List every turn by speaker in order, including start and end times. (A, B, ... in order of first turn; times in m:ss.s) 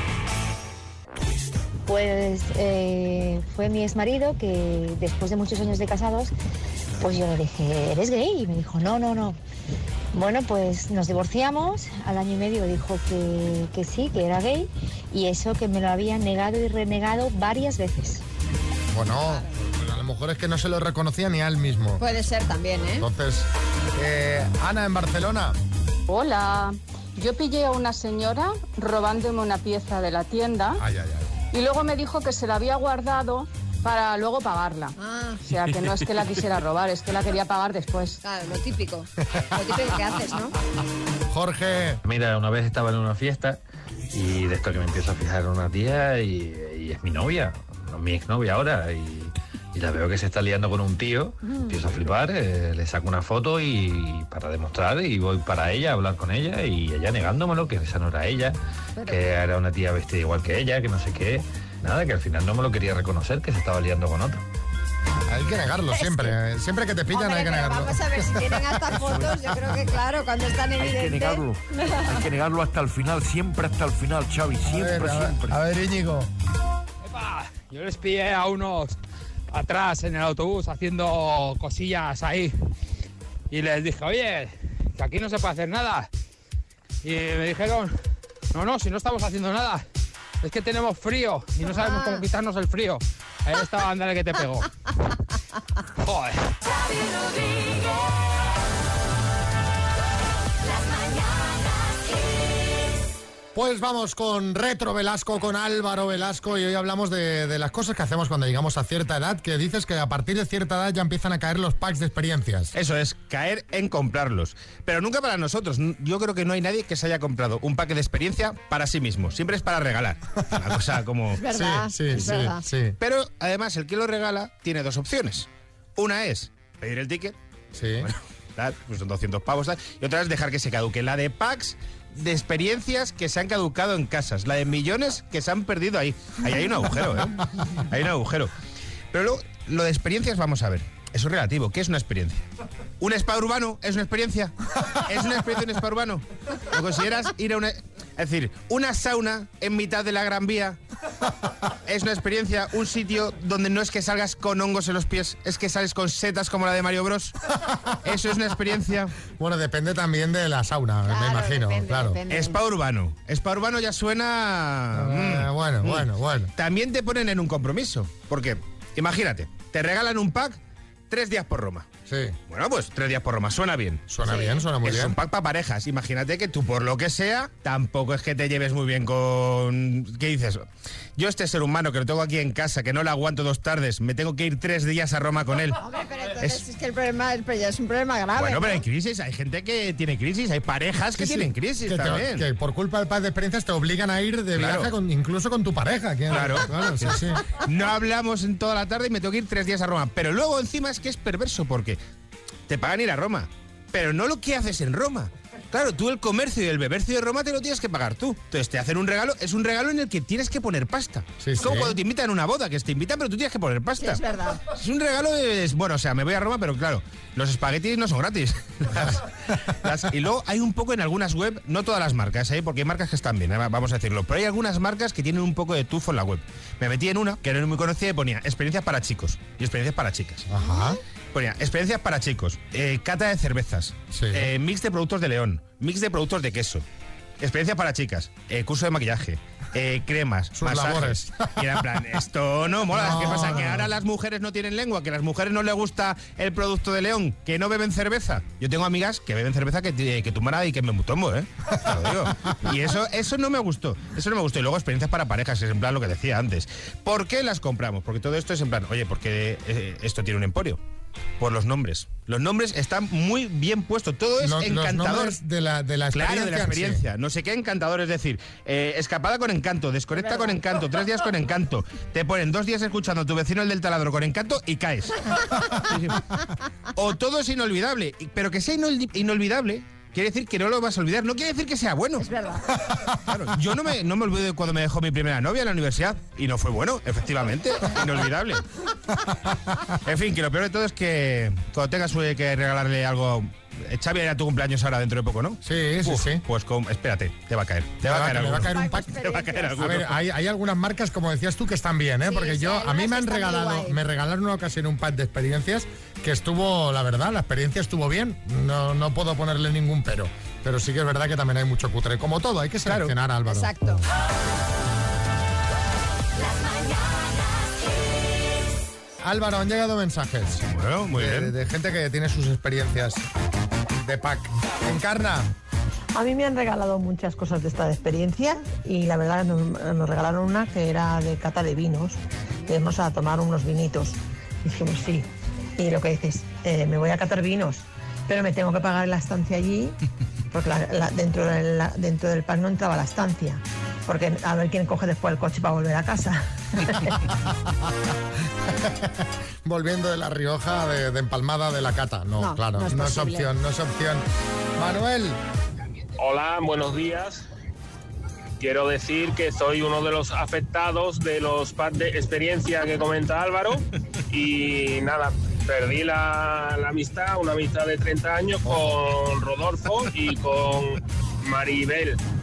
0:01.8-0:06.3 A
0:07.0-0:09.4 A
0:10.1-0:18.2 A
0:18.9-0:22.0 B
0:22.0-0:23.0 C
0:23.0-0:25.6 B
0:27.2-0:30.8 D
0:30.8-0:31.3 B
0:31.8-0:32.5 D
0:35.0-0:35.4 C
0:35.8-0:36.1 D
0:38.2-0:40.5 C
0:41.3-0:42.0 B
0:42.0-0:43.6 E
0:44.1-1:04.4 E
0:51.4-0:51.9 C
0:59.0-0:59.3 C
1:05.3-1:09.3 B
1:05.9-1:06.4 C
1:07.1-1:11.9 C
1:10.8-1:15.5 F
1:14.6-1:16.3 B
1:17.0-1:19.0 G
1:19.5-1:22.5 G
1:23.5-1:26.1 G
1:27.0-1:27.9 G
1:28.5-1:29.8 G
1:30.4-1:34.7 G
1:36.0-1:36.4 G
1:43.5-1:52.7 B
1:52.7-2:01.4 H
2:01.3-2:02.6 C
2:01.5-2:03.0 B
2:03.0-2:07.4 H
2:07.7-2:08.1 B
2:08.0-2:17.4 H
2:17.9-2:18.5 H
2:19.1-2:22.4 H
2:23.0-2:30.8 H
2:31.8-2:37.3 H
2:38.0-2:39.1 H
2:39.3-2:42.2 B
2:41.1-2:42.6 C
2:42.3-2:51.9 H
2:44.9-2:46.5 B
2:52.0-2:52.4 B
2:52.5-2:54.0 H
2:54.1-2:55.2 B
2:54.2-2:54.7 C
2:54.8-3:00.6 H
3:01.2-3:05.8 H
3:05.8-3:08.8 C
3:08.4-3:12.5 H
3:11.1-3:17.4 B
3:14.5-3:14.9 H
3:16.3-3:22.0 H
3:22.7-3:34.2 H
3:31.4-3:32.0 B
3:34.0-3:34.6 C
3:34.7-3:39.2 H
3:39.8-3:50.4 H
3:50.5-3:51.0 B
3:51.3-3:56.8 H
3:54.1-3:54.5 B
3:57.4-4:20.8 H
4:00.5-4:01.3 B
4:02.9-4:03.9 B
4:21.4-4:25.4 H
4:24.4-4:27.0 B
4:26.1-4:35.3 H
4:30.2-4:30.6 C
4:35.9-4:36.2 H
4:37.0-4:42.3 H
4:42.2-4:42.6 C
4:43.2-4:48.6 H
4:49.3-4:49.8 B
4:50.0-5:00.2 H
4:55.6-4:56.4 B
4:58.0-5:14.0 B
4:58.6-4:59.8 C
5:02.2-5:04.0 C
5:12.8-5:13.1 H
5:13.4-5:14.0 C
5:19.2-5:23.3 B
5:20.7-5:21.5 H
5:24.0-5:25.5 B
5:26.1-5:40.0 I
5:40.5-5:47.1 I
5:48.8-5:55.4 B
5:52.4-5:53.5 C
5:56.2-5:57.4 J
5:58.6-6:12.2 J